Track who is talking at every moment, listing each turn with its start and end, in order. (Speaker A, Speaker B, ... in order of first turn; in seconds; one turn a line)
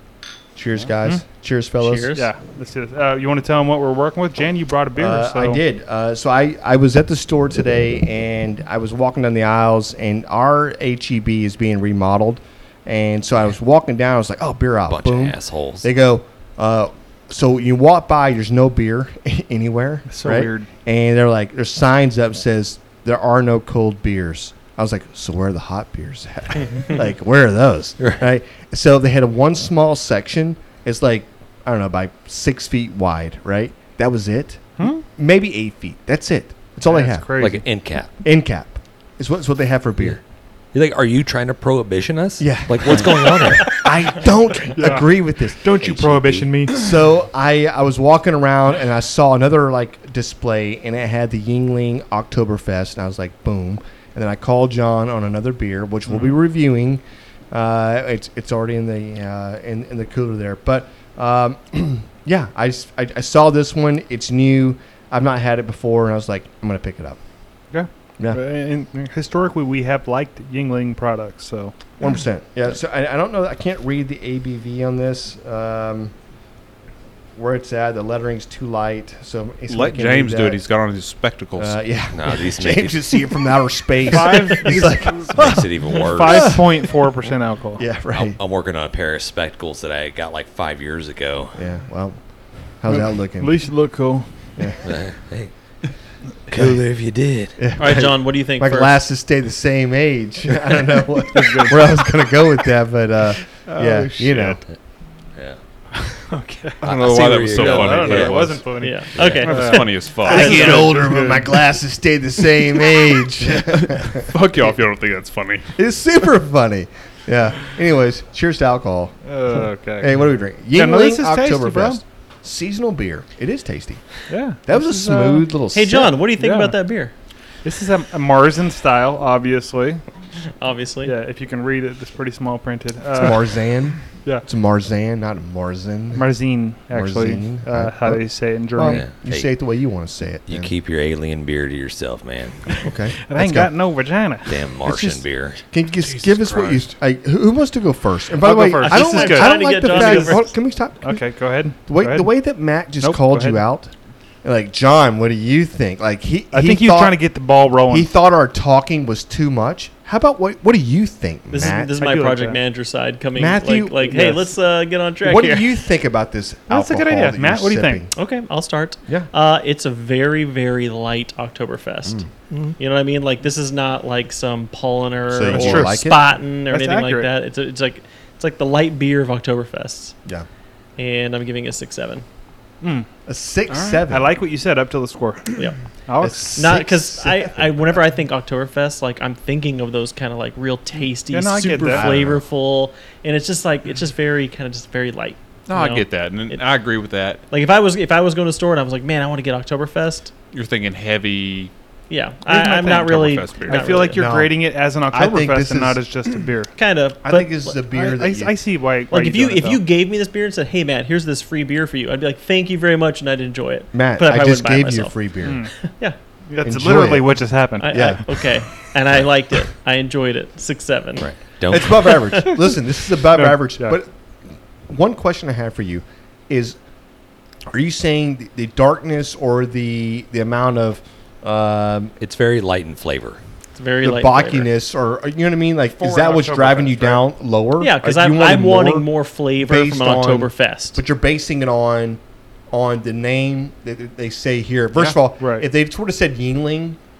Speaker A: 0.5-2.1
Speaker B: 1.8-2.3
Speaker C: 2.1-5.6
Speaker A: 5.0-37.4
Speaker D: 14.9-15.9
Speaker C: 20.1-20.7
Speaker C: 34.8-35.0
Speaker C: 36.9-37.6
Speaker D: 37.4-38.1
Speaker A: 38.2-40.2
Speaker D: 40.7-43.8
Speaker A: 42.4-45.6
Speaker C: 44.6-46.8
Speaker D: 45.7-46.7
Speaker A: 46.7-67.2
Speaker C: 67.7-71.7
Speaker A: 72.0-76.1
Speaker A: 77.3-80.6
Speaker E: 79.7-81.8
Speaker A: 81.6-86.9
Speaker D: 82.1-83.2
Speaker C: 84.1-87.8
Speaker D: 84.6-86.6
Speaker A: 87.8-88.4
Speaker D: 88.1-91.6
Speaker A: 91.5-92.2
Speaker A: 92.8-93.6
Speaker C: 92.9-94.3
Speaker D: 94.8-95.5
Speaker D: 96.5-97.5
Speaker A: 96.5-96.8
Speaker A: 97.5-104.6
Speaker B: 97.8-99.0
Speaker C: 101.3-101.9
Speaker E: 103.7-104.6
Speaker D: 105.3-105.6
Speaker C: 106.3-106.8
Speaker D: 106.8-109.6
Speaker E: 106.8-111.3
Speaker C: 107.5-111.4
Speaker B: 108.8-110.9
Speaker A: 110.2-114.3
Speaker E: 113.5-115.7
Speaker A: 115.8-119.2
Speaker C: 119.2-120.1
Speaker A: 120.0-126.1
Speaker C: 120.7-122.0
Speaker C: 124.3-125.5
Speaker B: 125.7-127.1
Speaker C: 126.4-126.8
Speaker C: 127.6-130.0
Speaker B: 130.6-131.1
Speaker C: 131.0-133.6
Speaker A: 133.1-136.3
Speaker C: 136.1-139.0
Speaker A: 136.9-140.7
Speaker D: 138.8-139.5
Speaker D: 140.5-142.8
Speaker A: 142.8-143.7
Speaker C: 143.3-144.5
Speaker D: 144.4-145.6
Speaker A: 144.8-157.3
Speaker E: 146.0-146.9
Speaker C: 148.4-150.4
Speaker B: 148.7-150.5
Speaker C: 151.0-152.3
Speaker C: 153.0-153.6
Speaker C: 156.5-158.1
Speaker A: 157.9-161.9
Speaker B: 161.5-165.7
Speaker C: 162.0-162.6
Speaker A: 163.3-164.5
Speaker A: 165.2-168.1
Speaker C: 166.7-168.0
Speaker B: 168.1-172.2
Speaker B: 172.8-180.2
Speaker A: 175.3-176.2
Speaker C: 175.5-176.1
Speaker C: 176.7-177.3
Speaker B: 181.0-182.2
Speaker C: 182.8-183.1
Speaker A: 183.2-184.3
Speaker C: 184.1-185.5
Speaker C: 186.1-186.6
Speaker A: 186.2-188.0
Speaker B: 186.6-196.6
Speaker C: 191.3-192.1
Speaker A: 191.8-192.4
Speaker E: 195.7-197.4
Speaker B: 197.5-200.3
Speaker E: 200.5-201.7
Speaker B: 202.1-204.2
Speaker C: 202.5-203.1
Speaker E: 202.6-204.0
Speaker C: 203.7-206.7
Speaker A: 204.1-206.0
Speaker B: 206.8-207.7
Speaker A: 207.2-208.6
Speaker C: 207.9-209.8
Speaker B: 209.1-215.2
Speaker A: 213.9-215.7
Speaker C: 215.4-215.7
Speaker B: 215.9-216.2
Speaker C: 216.5-218.2
Speaker A: 216.6-218.4
Speaker B: 217.8-222.6
Speaker D: 221.2-222.3
Speaker A: 221.7-224.1
Speaker C: 223.3-224.0
Speaker A: 224.9-226.8
Speaker A: 227.7-232.1
Speaker D: 232.2-233.4
Speaker B: 233.8-234.7
Speaker A: 234.0-242.2
Speaker C: 236.0-237.2
Speaker B: 237.8-241.0
Speaker A: 242.7-247.0
Speaker C: 245.0-245.7